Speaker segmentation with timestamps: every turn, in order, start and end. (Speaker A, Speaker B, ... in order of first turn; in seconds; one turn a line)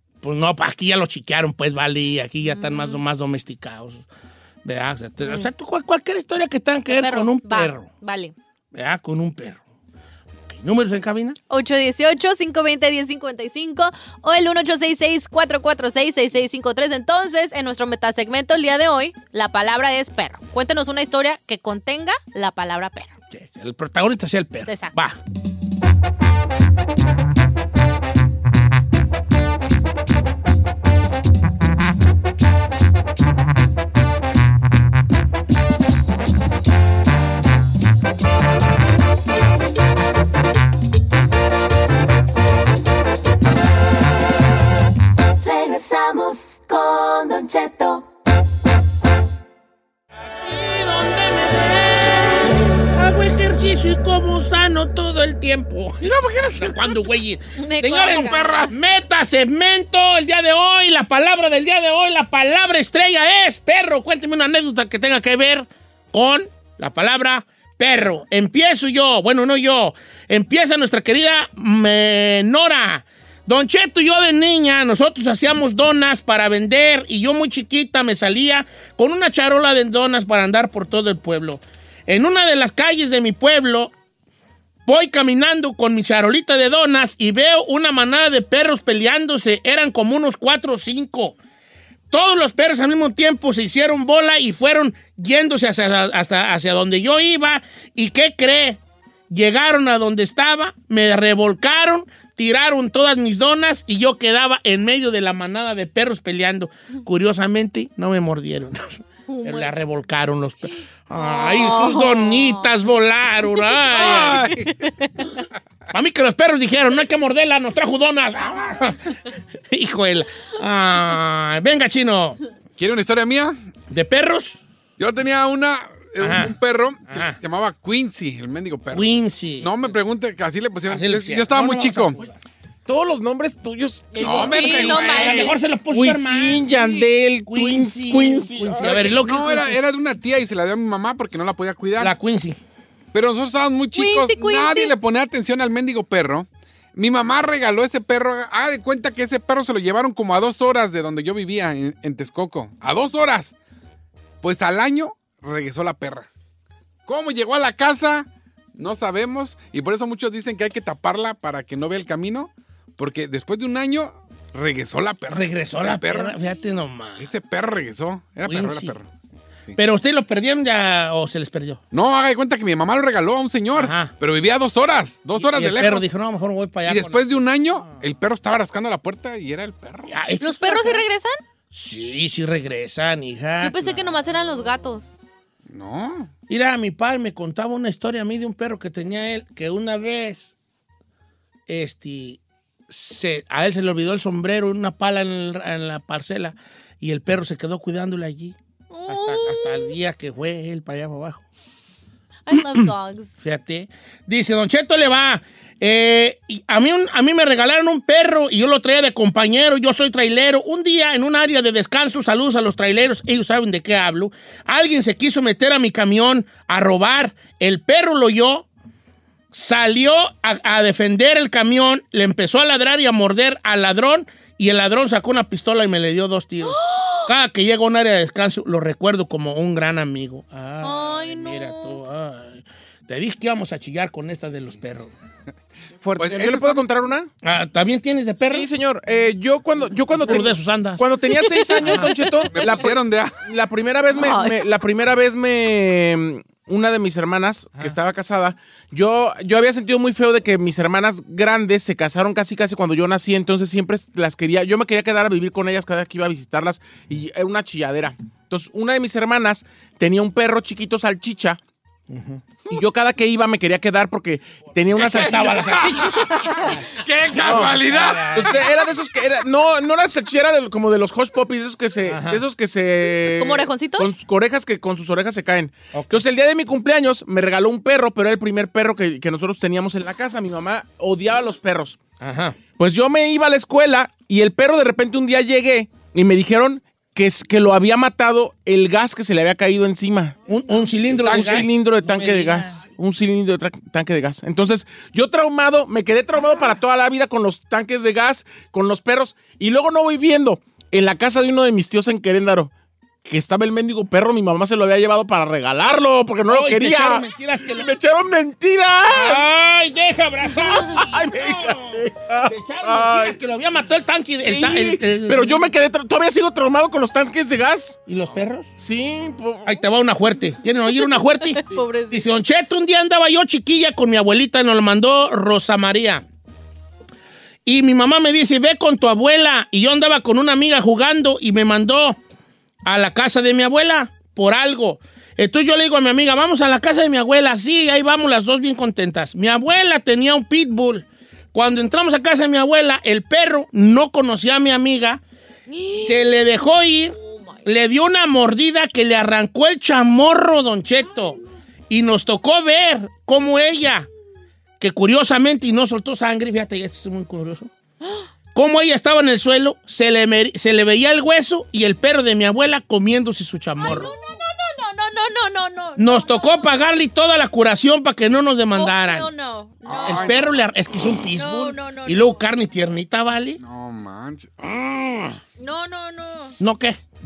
Speaker A: 0.2-4.0
Speaker B: 2.5-3.0
Speaker A: 4.6-7.9
Speaker B: 6.9-8.3
Speaker A: 8.7-9.6
Speaker A: 10.5-11.4
Speaker B: 11.5-23.1
Speaker A: 23.3-25.2
Speaker B: 24.7-24.9
Speaker C: 45.4-48.0
Speaker A: 50.4-83.9
Speaker D: 56.0-56.9
Speaker B: 57.6-58.7
Speaker D: 58.1-58.7
Speaker A: 84.9-91.4
Speaker A: 92.1-114.5
Speaker B: 109.3-109.7
Speaker B: 111.2-112.7
Speaker B: 113.8-115.2
Speaker D: 113.9-114.7
Speaker A: 115.9-119.2
Speaker A: 119.7-122.4
Speaker D: 122.8-123.5
Speaker A: 123.9-124.6
Speaker D: 125.0-132.2
Speaker A: 126.2-126.6
Speaker A: 127.1-127.4
Speaker A: 128.9-129.9
Speaker A: 130.9-132.4
Speaker E: 132.9-135.4
Speaker B: 134.2-135.6
Speaker D: 134.2-135.5
Speaker A: 134.5-136.7
Speaker E: 135.9-139.2
Speaker D: 136.7-137.0
Speaker A: 137.5-139.8
Speaker D: 138.9-142.1
Speaker A: 142.0-142.6
Speaker D: 143.1-153.6
Speaker B: 143.9-144.9
Speaker D: 154.4-156.2
Speaker D: 157.1-166.3
Speaker A: 165.3-167.3
Speaker D: 167.2-169.1
Speaker A: 168.4-169.0
Speaker A: 169.8-171.8
Speaker D: 171.9-176.1
Speaker A: 173.8-174.1
Speaker A: 175.4-178.0
Speaker D: 176.9-180.1
Speaker A: 180.1-181.0
Speaker B: 180.4-181.3
Speaker A: 181.7-184.1
Speaker B: 183.6-185.2
Speaker D: 185.7-186.3
Speaker A: 186.5-190.5
Speaker A: 191.7-198.6
Speaker B: 198.9-200.0
Speaker A: 199.1-201.4
Speaker B: 202.5-203.3
Speaker A: 202.5-202.9
Speaker A: 203.4-218.7
Speaker A: 219.5-235.1
Speaker B: 226.7-227.2
Speaker B: 230.8-232.0
Speaker E: 236.0-237.3
Speaker D: 236.2-236.8
Speaker A: 237.4-238.7
Speaker E: 238.4-261.6
Speaker A: 240.1-241.1
Speaker A: 241.8-242.1
Speaker D: 242.5-243.5
Speaker B: 244.1-244.6
Speaker A: 262.1-262.4
Speaker E: 262.7-265.8
Speaker D: 265.0-268.6
Speaker A: 265.0-268.7
Speaker E: 268.3-282.0
Speaker A: 272.0-272.4
Speaker B: 273.4-274.1
Speaker A: 275.9-276.2
Speaker A: 282.2-282.6
Speaker E: 282.8-290.4
Speaker A: 290.5-292.9
Speaker E: 291.2-302.7
Speaker D: 291.2-291.7
Speaker E: 303.3-309.4
Speaker A: 306.5-307.9
Speaker A: 309.1-315.7
Speaker E: 310.6-313.4
Speaker E: 314.4-318.0
Speaker A: 318.1-318.7
Speaker E: 318.8-319.8
Speaker A: 319.6-326.2
Speaker B: 321.5-322.3
Speaker A: 327.6-332.2
Speaker A: 332.9-345.2
Speaker B: 345.7-346.3
Speaker A: 345.9-351.4
Speaker B: 347.2-347.6
Speaker A: 351.9-354.1
Speaker A: 354.8-357.7
Speaker A: 358.5-364.1
Speaker B: 363.8-366.7
Speaker A: 366.0-369.3
Speaker B: 368.7-370.5
Speaker D: 369.9-371.2
Speaker A: 370.1-373.6
Speaker B: 371.4-372.4
Speaker D: 373.6-375.3
Speaker B: 375.6-376.6
Speaker A: 376.6-377.0